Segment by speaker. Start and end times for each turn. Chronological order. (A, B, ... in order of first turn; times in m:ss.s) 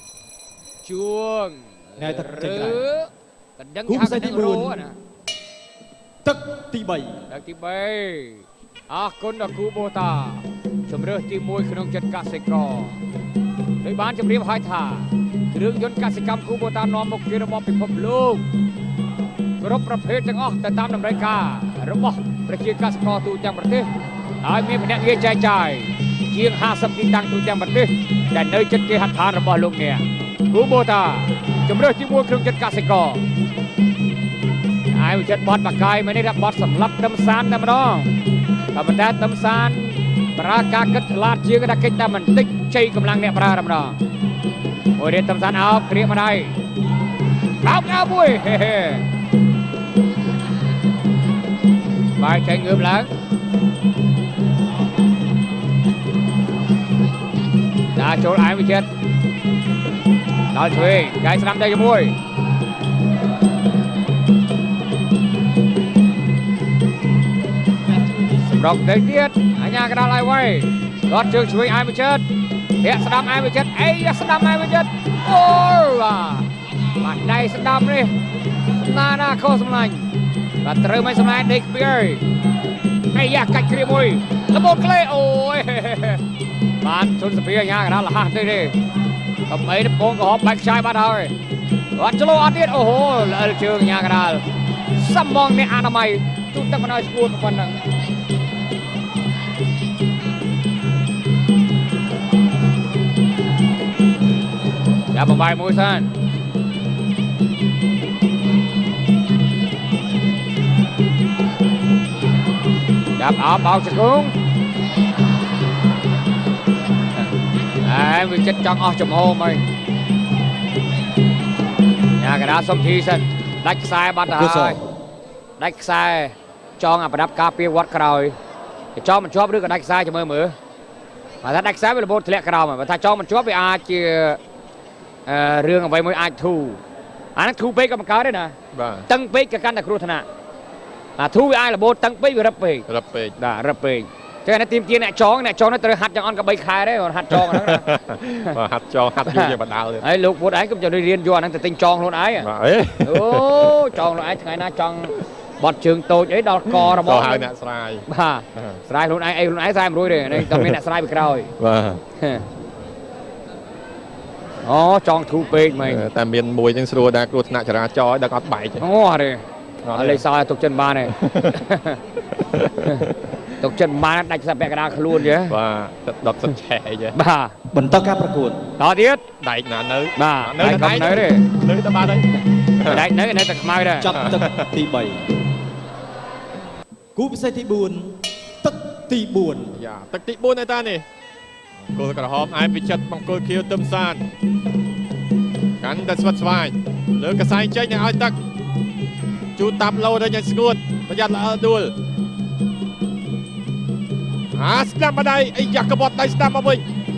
0:00.8-0:05.0 A
0:02.0-0:02.9 B
0:03.9-0:04.8 B
0:06.2-0:07.2 B
0:07.3-0:13.0 A
0:13.8-0:18.4 A
0:19.6-0:23.9 A
0:24.4-0:33.3 A
0:34.9-0:38.1 A
0:38.7-0:44.0 A
0:45.0-0:46.6 A
0:47.6-0:49.1 A
0:52.2-0:53.1 A
0:57.9-0:58.9 A
1:00.5-1:02.2 A
1:08.4-1:12.2 A
1:12.8-1:18.2 A
1:18.8-1:22.2 A
1:23.1-1:26.2 A
1:26.8-1:28.8 A
1:29.5-1:31.4 A
1:32.0-1:37.8 A
1:45.1-1:46.1 A
1:53.2-1:54.3 A
1:57.8-1:59.7 A
2:02.2-2:04.8 A
2:04.3-2:04.8 B
2:05.6-2:08.3 A
2:09.0-2:10.6 A
2:11.4-2:14.4 A
2:15.3-2:16.8 A
2:17.4-2:18.6 A
2:18.7-2:19.1 C
2:19.1-2:20.3 A
2:21.2-2:22.9 A
2:22.9-2:23.4 C
2:23.4-2:27.8 A
2:27.3-2:30.0 C
2:29.3-2:32.5 A
2:32.4-2:33.9 C
2:33.0-2:37.5 A
2:36.8-2:38.0 C
2:38.1-2:41.5 A
2:40.3-2:40.8 C
2:41.6-2:42.0 C
2:42.2-2:42.4 A
2:44.6-2:46.1 A
2:45.7-2:48.8 C
2:48.8-2:52.0 A
2:49.8-2:50.2 C
2:51.1-2:51.7 C
2:52.4-2:53.2 C
2:53.6-2:55.6 A
2:55.4-2:57.2 C
2:57.1-2:57.5 A
2:57.7-2:58.6 B
2:58.8-2:59.2 A
2:59.4-3:03.1 C
3:00.2-3:01.5 A
3:02.8-3:04.1 A
3:04.0-3:05.2 B
3:04.0-3:04.7 C
3:07.2-3:09.8 B
3:09.7-3:11.0 C
3:11.9-3:14.2 C
3:15.8-3:18.4 C
3:19.6-3:21.9 C
3:24.6-3:26.8 C